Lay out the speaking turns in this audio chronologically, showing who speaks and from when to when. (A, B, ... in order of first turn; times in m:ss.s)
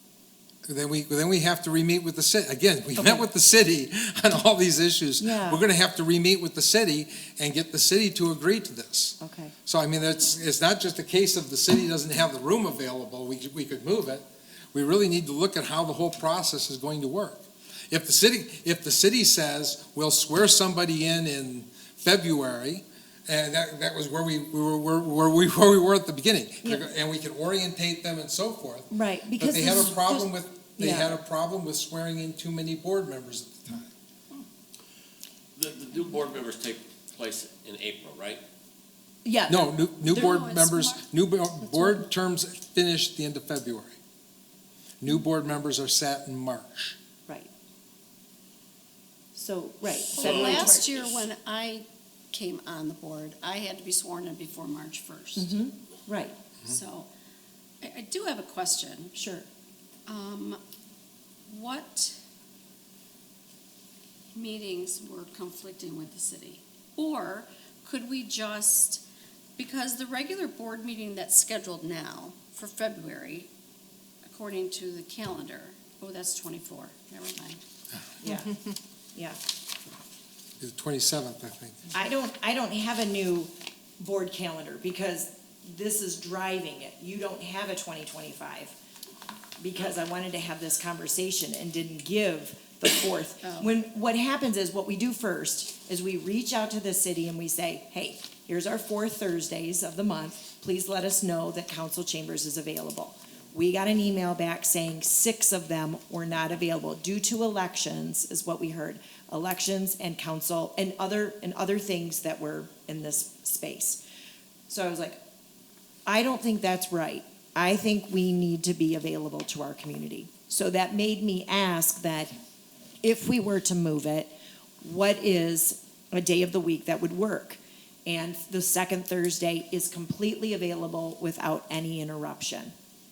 0:00.7-0:33.9 A
0:03.0-0:03.3 B
0:05.2-0:05.6 B
0:09.2-0:09.6 B
0:26.6-0:26.9 B
0:28.9-0:31.2 B
0:35.6-0:38.4 C
0:39.2-0:40.4 B
0:39.5-0:44.0 A
0:40.0-0:41.0 D
0:45.0-0:47.0 A
0:49.4-0:51.1 B
0:50.1-0:55.5 D
0:50.1-0:51.1 C
0:55.4-0:56.4 B
0:56.6-0:57.1 D
0:57.8-0:59.2 D
0:59.2-0:59.4 B
1:00.1-1:00.6 D
1:01.5-1:02.2 D
1:04.3-1:09.0 D
1:09.6-1:13.5 D
1:14.2-1:17.6 D
1:18.2-1:18.6 B
1:20.6-1:21.8 A
1:21.9-1:28.8 B
1:29.6-1:54.0 B
1:33.4-1:33.7 D
1:54.7-1:55.2 B
1:56.1-2:02.3 B
2:03.0-2:12.7 B